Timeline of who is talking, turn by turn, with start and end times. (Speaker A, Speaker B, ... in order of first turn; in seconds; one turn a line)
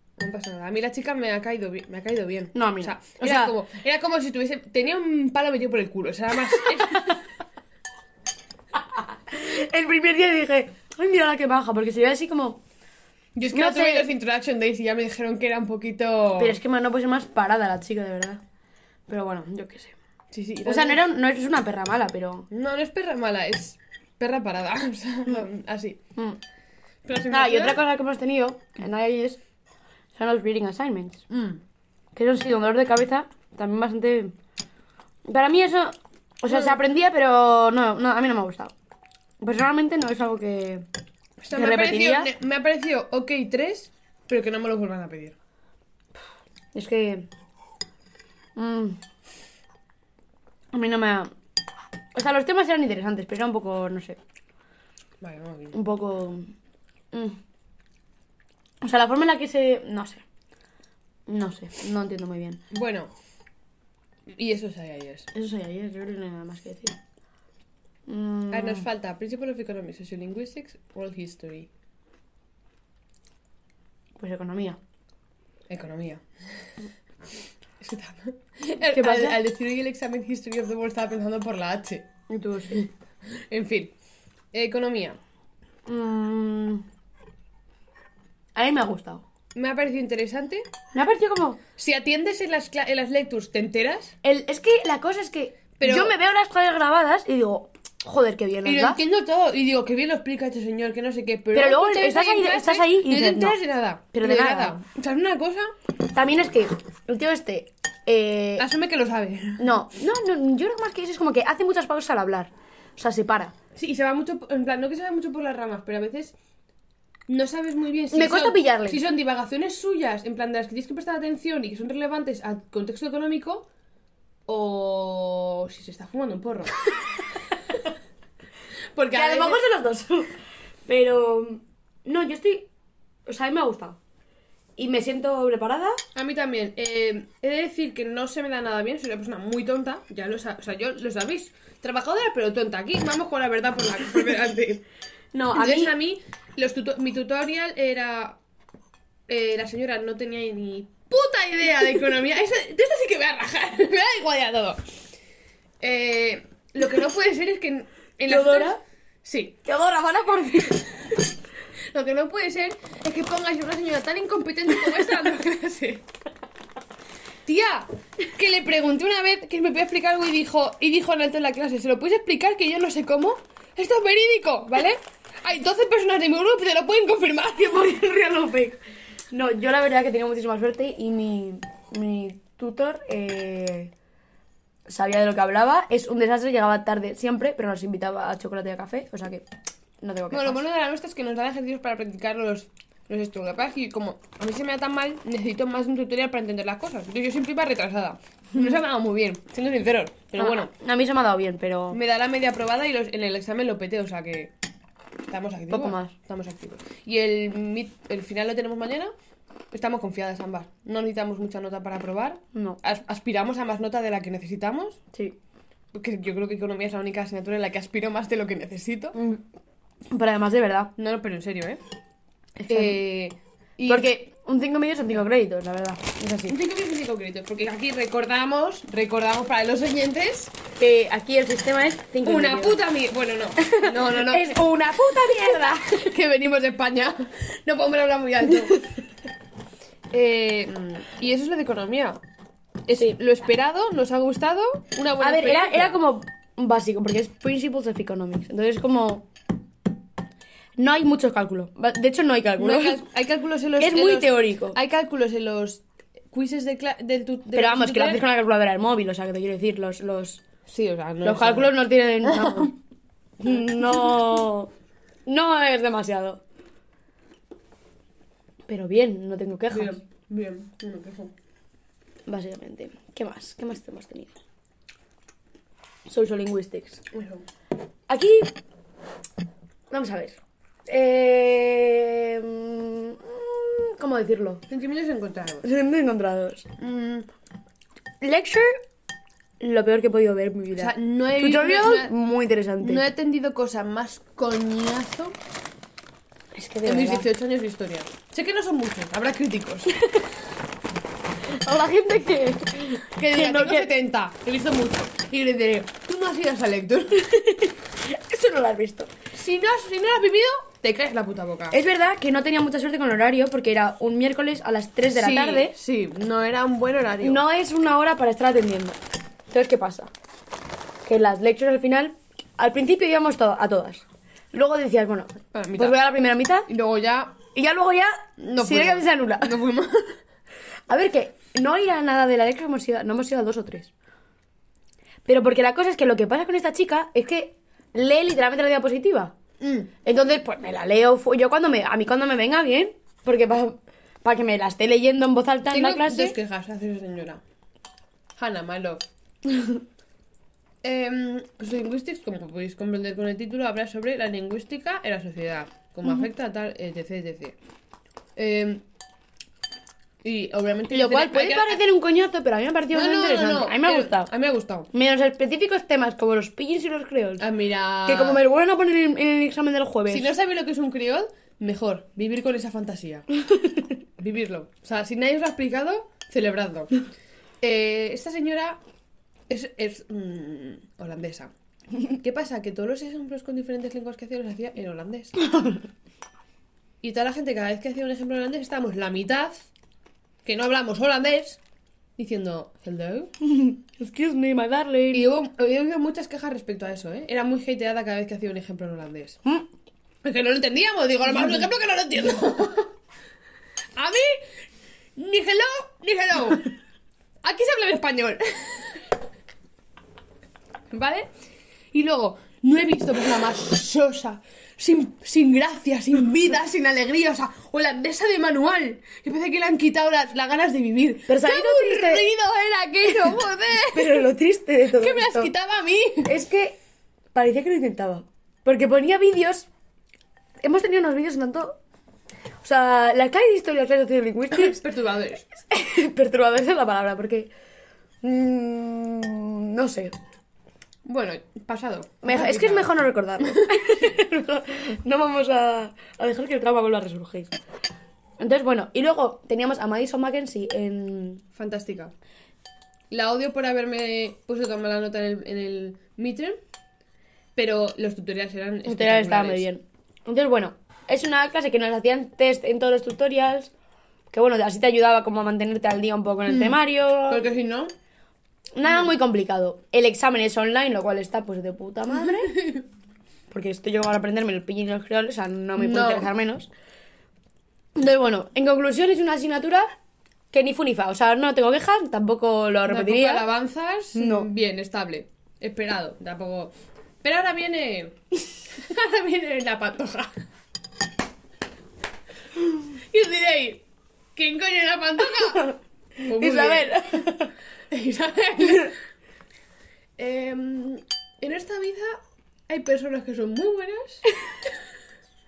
Speaker A: 0.2-7.2
Speaker B: 2.5-3.5
Speaker B: 6.8-7.1
Speaker B: 8.7-12.6
Speaker A: 13.3-16.6
Speaker B: 13.5-14.1
Speaker B: 16.4-18.4
Speaker B: 19.1-19.9
Speaker A: 20.3-21.0
Speaker B: 20.6-22.5
Speaker A: 22.5-26.0
Speaker A: 27.0-27.8
Speaker B: 27.3-29.4
Speaker B: 30.1-31.2
Speaker A: 31.3-31.6
Speaker B: 32.1-34.3
Speaker B: 35.3-38.7
Speaker A: 36.5-36.8
Speaker B: 39.4-40.8
Speaker A: 41.4-45.4
Speaker B: 41.5-42.3
Speaker B: 46.7-47.3
Speaker B: 48.5-49.0
Speaker B: 50.7-51.3
Speaker B: 52.1-54.2
Speaker A: 55.2-55.8
Speaker B: 55.7-56.5
Speaker B: 57.1-57.4
Speaker B: 58.8-60.2
Speaker B: 61.3-62.6
Speaker A: 62.7-63.1
Speaker A: 64.3-65.3
Speaker B: 65.3-67.0
Speaker B: 68.1-68.9
Speaker A: 68.5-71.7
Speaker B: 74.2-74.8
Speaker A: 75.7-76.6
Speaker A: 77.8-82.1
Speaker B: 78.9-79.4
Speaker B: 82.3-82.9
Speaker A: 83.5-83.9
Speaker A: 84.5-85.2
Speaker B: 85.9-86.8
Speaker B: 88.5-89.2
Speaker A: 89.5-90.7
Speaker B: 90.9-91.6
Speaker A: 91.8-94.1
Speaker B: 94.2-99.0
Speaker A: 95.8-96.2
Speaker A: 98.6-105.7
Speaker B: 101.5-103.6
Speaker B: 104.1-104.8
Speaker B: 106.1-108.7
Speaker A: 108.6-109.6
Speaker B: 109.6-113.5
Speaker A: 113.7-116.3
Speaker A: 117.3-123.7
Speaker B: 118.1-119.0
Speaker A: 124.5-126.7
Speaker A: 128.9-129.6
Speaker B: 129.1-130.3
Speaker B: 130.9-132.7
Speaker B: 133.2-134.0
Speaker B: 134.8-136.0
Speaker A: 136.1-144.8
Speaker B: 145.3-145.9
Speaker A: 145.5-148.4
Speaker A: 149.3-154.8
Speaker A: 155.8-159.6
Speaker B: 158.2-158.8
Speaker B: 159.6-161.0
Speaker A: 161.9-166.0
Speaker A: 167.4-178.1
Speaker B: 177.8-178.8
Speaker B: 179.3-183.9
Speaker B: 184.9-189.4
Speaker B: 190.0-190.6
Speaker A: 190.3-200.7
Speaker B: 200.4-202.0
Speaker A: 201.9-204.5
Speaker A: 205.3-209.1
Speaker B: 205.7-206.1
Speaker A: 209.7-215.0
Speaker B: 212.5-212.8
Speaker A: 215.9-219.2
Speaker B: 219.1-219.4
Speaker B: 220.1-220.9
Speaker A: 221.0-221.8
Speaker B: 222.6-223.0
Speaker A: 222.7-224.1
Speaker B: 223.9-226.6
Speaker A: 226.5-230.5
Speaker B: 230.8-232.8
Speaker A: 232.2-238.8
Speaker B: 233.6-235.9
Speaker A: 240.1-242.2
Speaker A: 242.8-246.0
Speaker B: 245.2-249.2
Speaker B: 250.8-253.0
Speaker A: 252.6-258.2
Speaker B: 253.8-254.8
Speaker B: 257.5-260.4
Speaker A: 260.6-262.7
Speaker B: 261.2-262.8
Speaker B: 263.4-264.7
Speaker A: 263.8-264.2
Speaker B: 265.2-266.4
Speaker B: 268.7-270.0
Speaker A: 269.7-271.3
Speaker B: 272.3-274.3
Speaker B: 276.1-277.0
Speaker A: 277.1-277.4
Speaker B: 278.1-278.5
Speaker B: 279.9-284.6
Speaker A: 284.7-285.7
Speaker B: 285.6-286.7
Speaker A: 286.8-287.3
Speaker B: 288.2-288.8
Speaker B: 289.6-293.0
Speaker A: 290.8-292.1
Speaker A: 292.8-295.4
Speaker B: 296.5-297.3
Speaker A: 296.8-299.9
Speaker B: 301.5-303.9
Speaker A: 303.1-307.3
Speaker B: 307.2-309.1
Speaker A: 309.3-311.8
Speaker B: 311.7-315.7
Speaker A: 315.1-317.4
Speaker B: 317.2-319.0
Speaker B: 319.5-320.1
Speaker B: 321.1-326.7
Speaker A: 325.5-326.0
Speaker A: 326.7-327.4
Speaker B: 327.5-329.6
Speaker A: 328.4-330.1
Speaker B: 330.9-333.9
Speaker B: 335.2-339.3
Speaker A: 339.6-339.9
Speaker B: 340.0-346.4
Speaker A: 345.7-347.4
Speaker A: 348.4-349.1
Speaker B: 349.5-349.8
Speaker A: 350.8-357.6
Speaker A: 358.4-358.8
Speaker A: 360.2-361.8
Speaker B: 360.9-364.3
Speaker A: 362.9-364.9
Speaker B: 364.9-367.5
Speaker A: 367.4-368.4
Speaker B: 368.0-370.3
Speaker A: 370.1-373.2
Speaker B: 373.6-373.8
Speaker A: 374.2-376.9
Speaker A: 377.6-378.8
Speaker A: 379.5-381.5
Speaker A: 382.1-385.3
Speaker B: 385.5-385.8
Speaker A: 387.0-389.7
Speaker A: 390.4-391.6
Speaker A: 392.2-393.3
Speaker B: 393.4-395.2
Speaker A: 395.1-399.4
Speaker A: 400.2-402.9
Speaker A: 403.9-404.4
Speaker A: 405.1-406.7
Speaker A: 407.4-409.1
Speaker A: 410.9-411.3
Speaker A: 411.9-424.3
Speaker B: 421.3-422.2
Speaker B: 423.9-425.5
Speaker A: 424.9-426.3
Speaker B: 426.2-426.8
Speaker B: 427.3-429.7
Speaker B: 430.6-431.8
Speaker B: 432.6-434.8
Speaker A: 434.5-435.5
Speaker B: 435.7-437.5
Speaker B: 438.2-440.1
Speaker A: 441.0-443.8
Speaker B: 442.2-447.5
Speaker B: 448.4-451.4
Speaker A: 451.5-452.1
Speaker A: 453.1-456.6
Speaker A: 457.6-459.6
Speaker B: 458.8-463.7
Speaker B: 464.3-467.5
Speaker A: 466.5-467.9
Speaker B: 468.7-472.7
Speaker A: 472.2-472.8
Speaker B: 473.5-476.7
Speaker A: 475.8-476.3
Speaker B: 477.9-479.9
Speaker B: 480.5-483.5
Speaker A: 482.9-488.2
Speaker B: 484.1-484.5
Speaker A: 488.7-490.4
Speaker A: 492.9-495.7
Speaker B: 495.5-497.5
Speaker A: 496.2-497.3
Speaker A: 497.9-499.0
Speaker A: 500.2-504.2